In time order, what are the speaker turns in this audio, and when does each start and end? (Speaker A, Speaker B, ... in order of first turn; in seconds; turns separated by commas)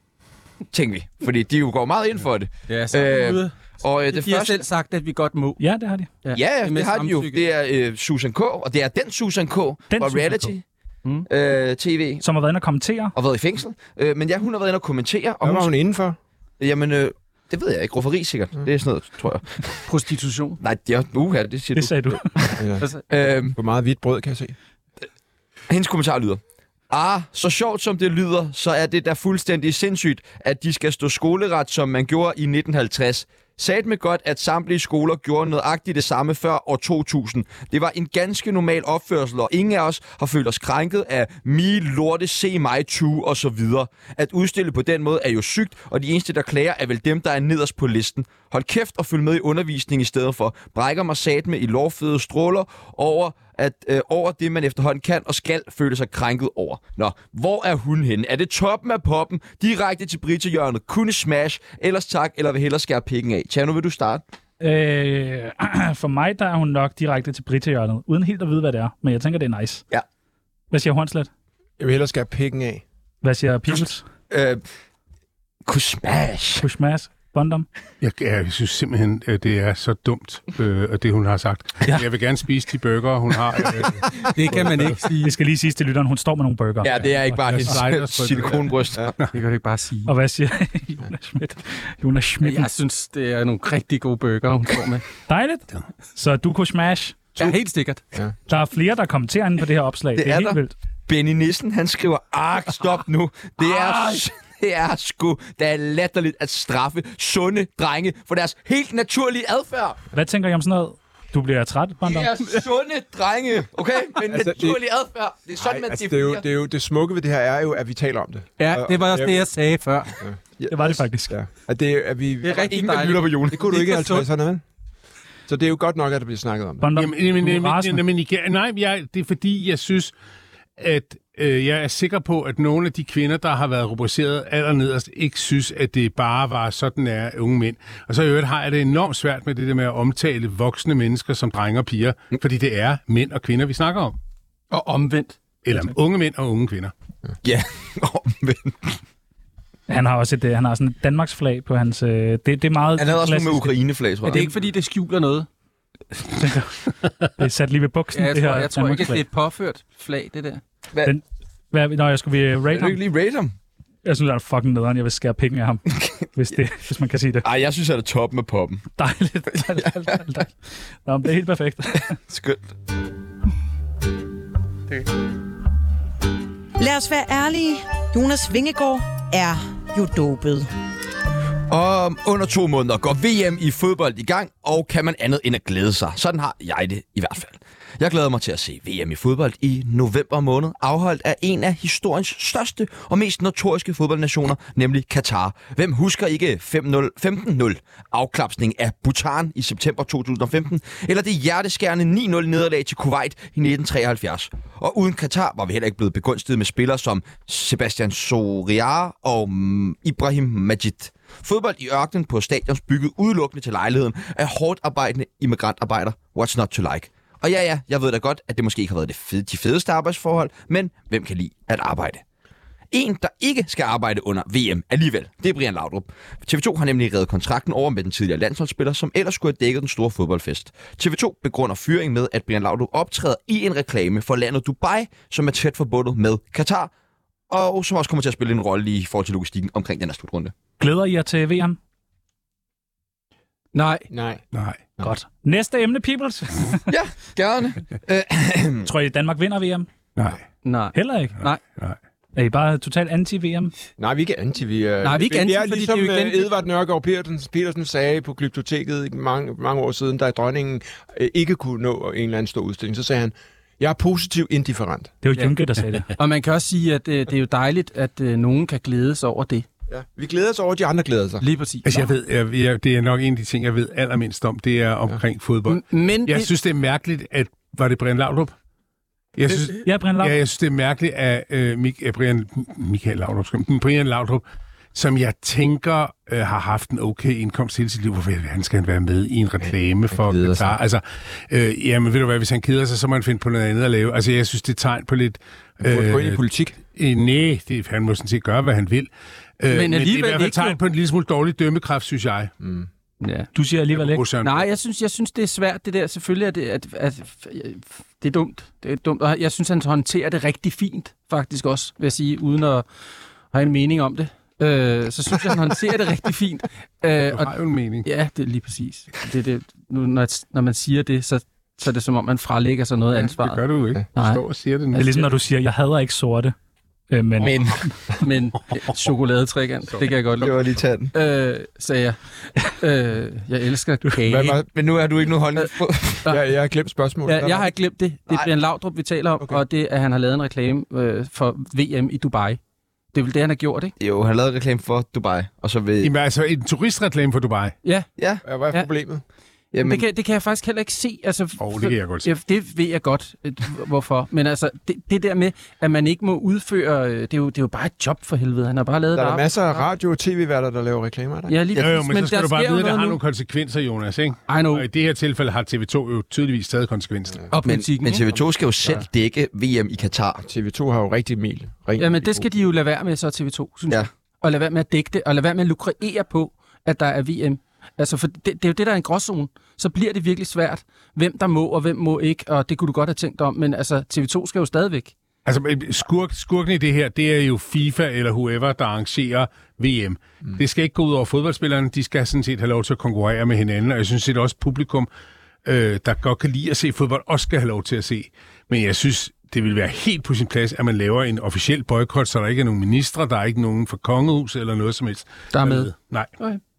Speaker A: 0.7-4.6, Speaker B: 2.7-5.6, Speaker C: 5.6-6.1, Speaker B: 6.2-7.4, Speaker A: 6.3-10.7, Speaker C: 9.9-10.5, Speaker A: 11.3-12.2, Speaker C: 12.2-13.2, Speaker A: 13.2-15.7, Speaker D: 15.4-16.2, Speaker A: 16.6-19.9, Speaker B: 19.9-20.6, Speaker A: 20.6-23.6, Speaker C: 21.8-22.4, Speaker D: 22.6-24.6, Speaker A: 25.7-64.2, Speaker C: 64.6-69.8, Speaker C: 70.7-71.3, Speaker D: 71.8-72.8, Speaker C: 73.2-74.0, Speaker A: 74.3-74.6, Speaker A: 75.7-76.7, Speaker C: 76.6-77.7, Speaker E: 78.0-84.1, Speaker A: 84.2-84.9, Speaker B: 84.3-85.3, Speaker C: 85.2-87.8, Speaker A: 86.8-89.2, Speaker E: 87.4-88.7, Speaker B: 89.3-90.1, Speaker C: 90.1-92.7, Speaker B: 92.4-95.1, Speaker C: 95.3-97.2, Speaker B: 97.4-98.0, Speaker C: 98.5-100.7, Speaker A: 100.2-110.0, Speaker B: 103.6-104.2, Speaker C: 110.1-112.3, Speaker A: 112.0-116.4, Speaker D: 114.2-114.8, Speaker D: 115.6-119.5, Speaker B: 118.6-120.1, Speaker D: 120.2-124.6, Speaker C: 120.7-121.3, Speaker B: 122.4-124.3, Speaker A: 122.7-123.7, Speaker D: 125.5-126.9, Speaker C: 126.8-128.0, Speaker E: 126.9-130.1, Speaker E: 130.8-144.2, Speaker B: 144.7-145.4, Speaker E: 145.6-146.9, Speaker A: 147.4-149.0, Speaker C: 149.9-153.8, Speaker A: 153.0-154.5, Speaker B: 154.2-155.5, Speaker C: 156.2-159.2, Speaker B: 158.1-160.6, Speaker C: 161.0-163.0, Speaker A: 162.7-163.6, Speaker C: 164.1-167.5, Speaker A: 165.9-166.3, Speaker A: 167.4-168.9, Speaker C: 169.0-172.2, Speaker A: 169.8-170.2, Speaker A: 172.1-172.7, Speaker F: 176.8-180.7, Speaker A: 181.7-222.2, Speaker A: 222.9-236.9, Speaker A: 237.5-240.5, Speaker C: 240.8-241.8, Speaker B: 243.7-244.1, Speaker D: 244.1-244.4, Speaker E: 244.5-244.8, Speaker C: 245.0-246.8, Speaker A: 246.9-248.9, Speaker C: 248.8-249.9, Speaker E: 250.2-250.4, Speaker B: 250.6-251.6, Speaker C: 250.9-251.4, Speaker C: 252.3-253.7, Speaker D: 254.0-265.1, Speaker B: 255.0-256.5, Speaker C: 265.2-266.1, Speaker B: 266.2-269.7, Speaker D: 269.9-271.4, Speaker B: 271.4-272.1, Speaker E: 271.8-278.5, Speaker B: 275.7-276.5, Speaker E: 279.4-284.4, Speaker C: 279.8-280.4, Speaker E: 284.9-296.4, Speaker D: 289.7-290.8, Speaker D: 295.8-296.8, Speaker E: 296.9-302.5, Speaker B: 299.7-300.8, Speaker D: 302.6-302.9, Speaker B: 303.2-303.5, Speaker C: 303.5-304.2, Speaker E: 303.9-304.7, Speaker B: 304.4-312.9, Speaker B: 313.5-323.6, Speaker E: 317.3-318.1, Speaker E: 323.4-325.3, Speaker B: 324.1-324.4, Speaker C: 324.9-326.6, Speaker C: 327.1-327.9, Speaker A: 327.4-327.8, Speaker B: 328.2-334.6, Speaker A: 330.4-331.1, Speaker D: 334.3-334.7, Speaker A: 334.7-336.3, Speaker D: 336.3-337.7, Speaker B: 337.3-342.6, Speaker B: 343.1-343.9, Speaker A: 344.0-346.1, Speaker E: 346.0-347.8, Speaker D: 348.4-349.2, Speaker A: 349.7-350.0, Speaker B: 349.8-359.8, Speaker E: 351.6-352.3, Speaker D: 359.1-361.6, Speaker B: 361.5-363.2, Speaker E: 361.8-367.5, Speaker B: 364.5-364.9, Speaker B: 367.5-369.0, Speaker A: 367.6-370.5, Speaker D: 370.5-372.5, Speaker B: 372.0-385.1, Speaker E: 385.5-395.1, Speaker E: 395.6-406.3, Speaker B: 405.5-406.6